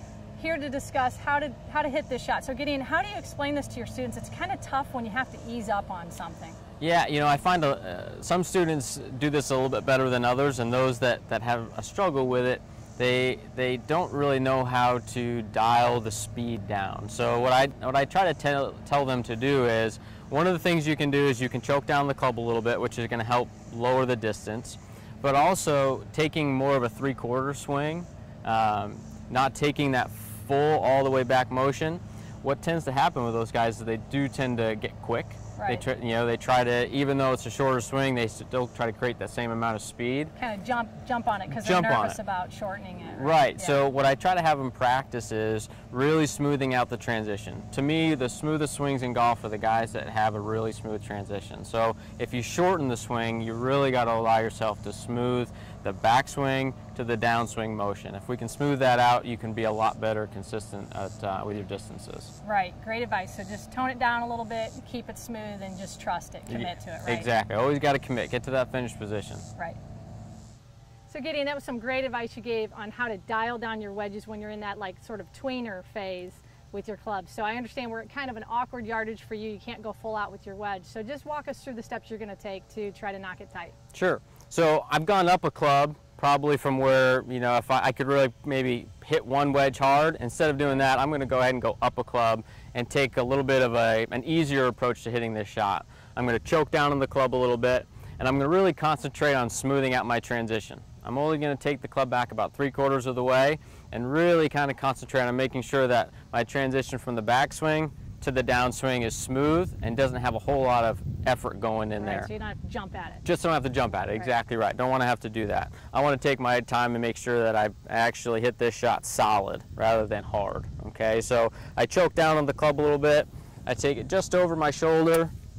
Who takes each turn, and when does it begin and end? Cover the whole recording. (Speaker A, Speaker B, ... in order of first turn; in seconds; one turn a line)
Speaker A: 0.4-6.6
Speaker B: 6.8-40.3
Speaker A: 35.6-35.8
Speaker A: 40.4-43.8
Speaker B: 41.5-42.2
Speaker B: 43.1-62.3
Speaker A: 62.4-67.3
Speaker B: 66.5-69.5
Speaker A: 71.1-83.7
Speaker B: 83.9-112.3
Speaker A: 112.0-113.2
Speaker B: 113.2-125.3